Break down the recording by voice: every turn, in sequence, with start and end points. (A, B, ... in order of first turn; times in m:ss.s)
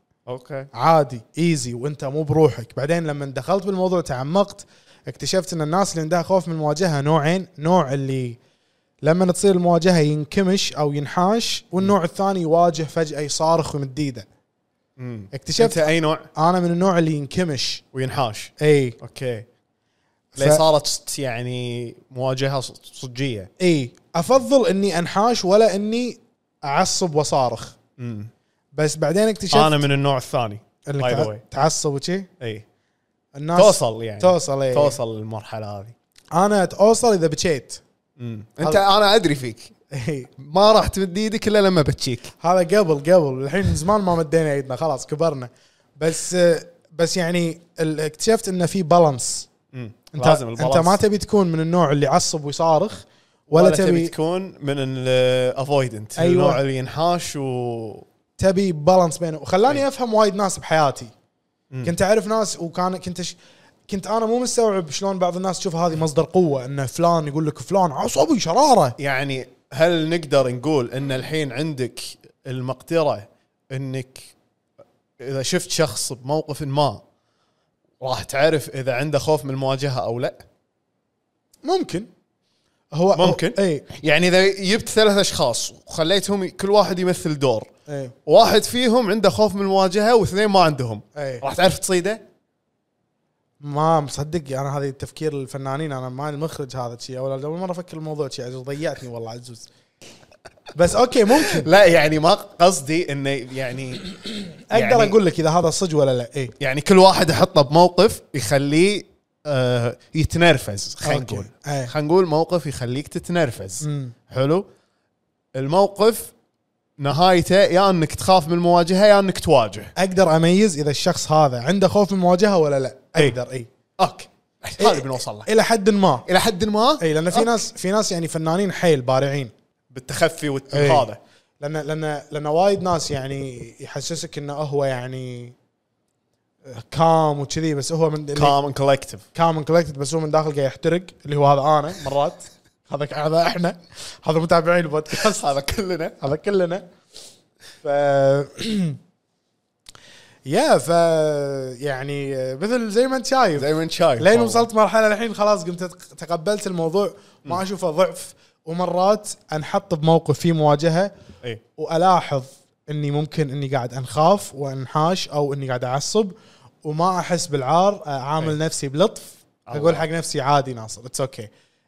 0:00.3-0:00.7 A
0:00.7-0:08.4 B
0:09.0-0:14.3 B
0:15.0-0:16.3 A
0:15.3-0:17.8 B
0:17.9-0:19.5 A
0:18.6-0:19.0 B
0:20.3-0:20.6 B
0:20.4-0:23.5 A
0:23.6-0:27.8 B
0:28.0-0:28.3 A
0:28.7-0:29.8 B
0:29.5-0:31.4 A
0:30.8-0:32.3 B
0:32.4-0:32.6 A
0:33.3-0:35.0 B
0:33.6-0:36.0 A
0:36.3-0:37.8 B
0:38.2-0:39.7 A
0:39.9-0:40.3 B
0:40.4-0:42.3 A
0:42.4-0:49.5 B
0:49.7-0:51.0 A
0:50.1-0:54.1 B
0:53.5-0:58.1 A
0:56.2-0:56.6 B
0:58.4-1:01.1 B
1:01.8-1:09.0 B
1:09.0-1:14.4 A
1:15.2-1:17.0 A
1:18.0-1:20.4 A
1:21.6-1:22.1 B
1:22.9-1:23.8 B
1:23.2-1:27.7 A
1:27.9-1:28.2 B
1:28.3-1:32.2 A
1:31.2-1:31.4 B
1:33.6-1:39.7 B
1:40.7-1:41.7 B
1:41.3-1:44.1 A
1:44.1-1:46.5 B
1:44.7-1:45.2 A
1:46.6-1:54.7 A
1:51.0-1:51.9 B
1:53.8-1:54.2 B
1:55.6-1:56.3 A
1:57.0-1:59.9 A
2:00.0-2:03.7 B
2:04.0-2:05.5 A
2:04.8-2:06.3 B
2:06.3-2:07.6 A
2:07.0-2:09.5 B
2:09.9-2:11.2 A
2:10.7-2:15.6 B
2:16.6-2:18.6 B
2:18.4-2:19.2 A
2:19.3-2:25.5 B
2:25.1-2:26.2 A
2:26.2-2:26.9 B
2:27.8-2:29.0 B
2:30.5-2:41.1 B
2:33.6-2:34.7 A
2:41.8-2:51.5 B
2:49.7-2:50.1 A